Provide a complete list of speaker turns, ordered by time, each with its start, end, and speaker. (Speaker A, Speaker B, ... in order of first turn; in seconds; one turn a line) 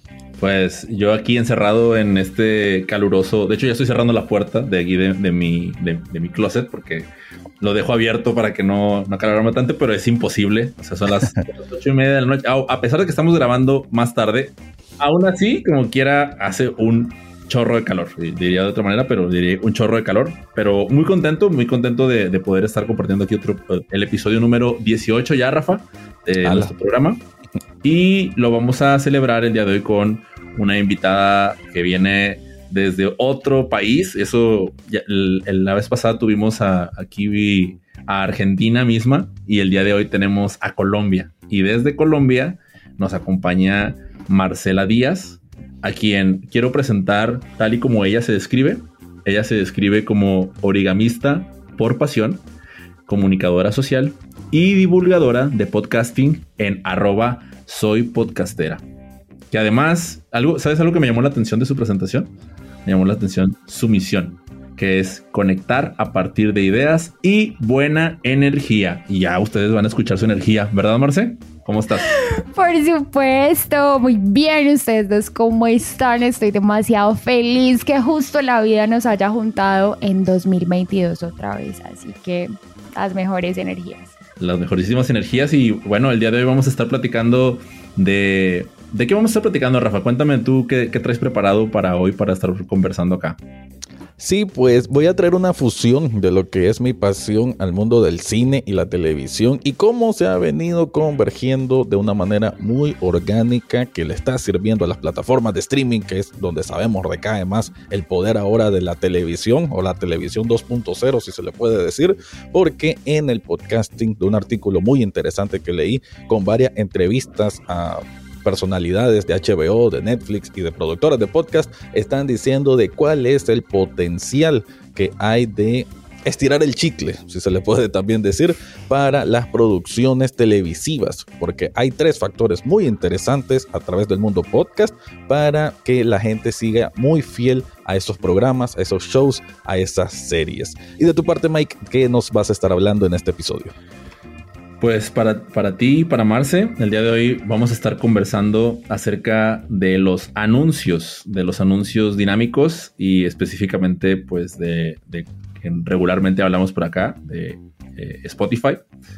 Speaker A: 0.4-7.1
Speaker A: 7.6-27.2
Speaker B: 26.4-26.7
Speaker A: 27.8-52.4
Speaker A: 53.1-58.8
Speaker A: 59.5-62.3
Speaker A: 62.9-72.1
Speaker C: 72.2-84.1
Speaker A: 84.4-93.4
Speaker B: 94.2-143.8
Speaker A: 144.8-158.8